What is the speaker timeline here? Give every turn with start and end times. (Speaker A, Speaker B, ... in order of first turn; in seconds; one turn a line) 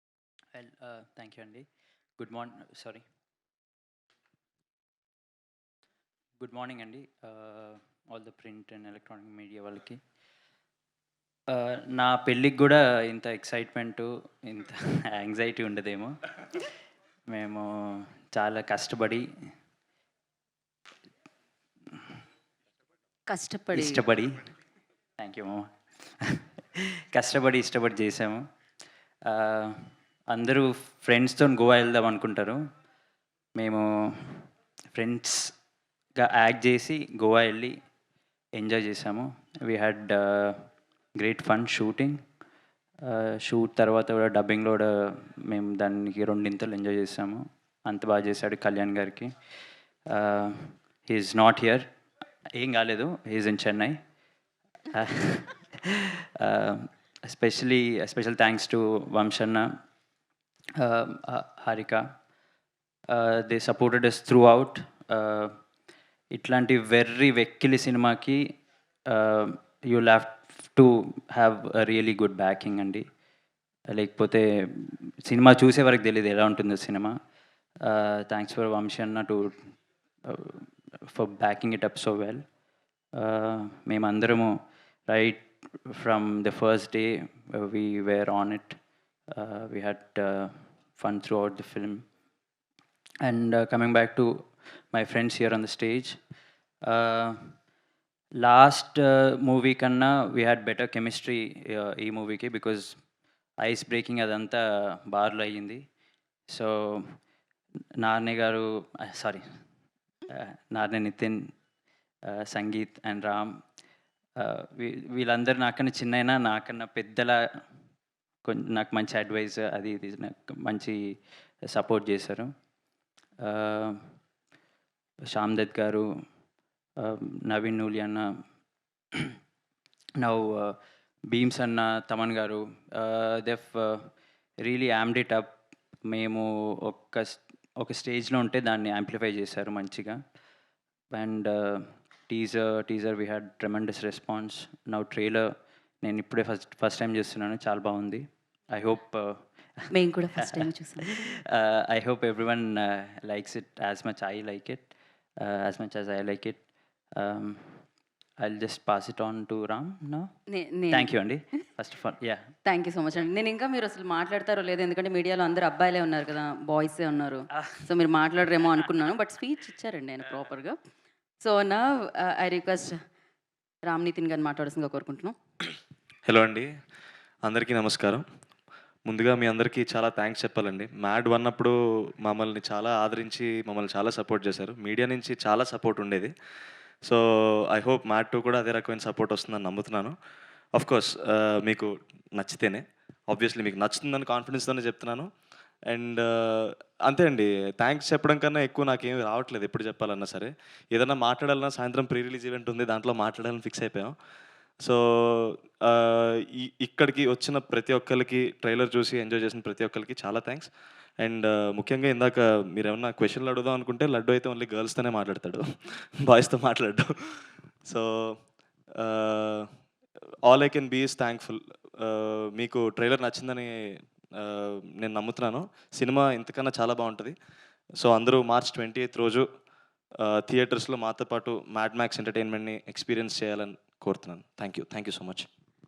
Speaker A: 0.5-1.6
Speaker A: 2.2-3.0
Speaker A: 6.4-10.0
Speaker A: 11.5-16.2
Speaker A: 17.3-19.2
Speaker B: 23.3-24.0
Speaker A: 23.7-24.5
Speaker A: 25.2-28.4
Speaker A: 29.3-32.6
Speaker A: 33.5-35.5
Speaker A: 36.2-37.8
Speaker A: 38.5-40.6
Speaker A: 41.2-42.2
Speaker A: 43.0-49.3
Speaker A: 50.1-51.9
Speaker A: 52.5-54.0
Speaker A: 54.9-59.7
Speaker A: 60.8-62.1
Speaker A: 63.1-65.5
Speaker A: 66.3-68.5
Speaker A: 69.1-73.0
Speaker A: 73.9-77.2
Speaker A: 77.8-79.6
Speaker A: 80.2-82.4
Speaker A: 83.1-84.6
Speaker A: 85.1-88.8
Speaker A: 89.3-92.0
Speaker A: 93.2-96.2
Speaker A: 96.8-97.5
Speaker A: 98.4-103.0
Speaker A: 103.6-105.8
Speaker A: 106.5-107.2
Speaker A: 108.0-109.4
Speaker A: 110.3-111.5
Speaker A: 112.3-113.6
Speaker A: 114.4-117.4
Speaker A: 118.4-121.0
Speaker A: 121.7-122.5
Speaker A: 123.4-124.0
Speaker A: 125.3-126.1
Speaker A: 127.0-128.3
Speaker A: 130.2-130.8
Speaker A: 131.3-134.1
Speaker A: 134.6-135.6
Speaker A: 136.1-140.2
Speaker A: 141.1-149.9
Speaker B: 149.9-151.3
Speaker A: 150.4-154.9
Speaker A: 155.4-156.6
Speaker A: 157.2-157.8
Speaker A: 158.4-160.3
Speaker B: 160.5-161.1
Speaker A: 160.9-162.4
Speaker B: 162.6-170.8
Speaker B: 171.4-173.0
Speaker B: 173.8-175.3
Speaker C: 176.3-176.7
Speaker C: 177.4-178.2
Speaker C: 179.1-186.3
Speaker C: 187.0-190.2
Speaker C: 190.8-195.3
Speaker C: 195.9-204.1
Speaker C: 204.8-210.7
Speaker C: 211.2-218.4
Speaker C: 219.0-219.7
Speaker C: 220.4-227.3
Speaker C: 228.0-229.4
Speaker C: 230.2-235.5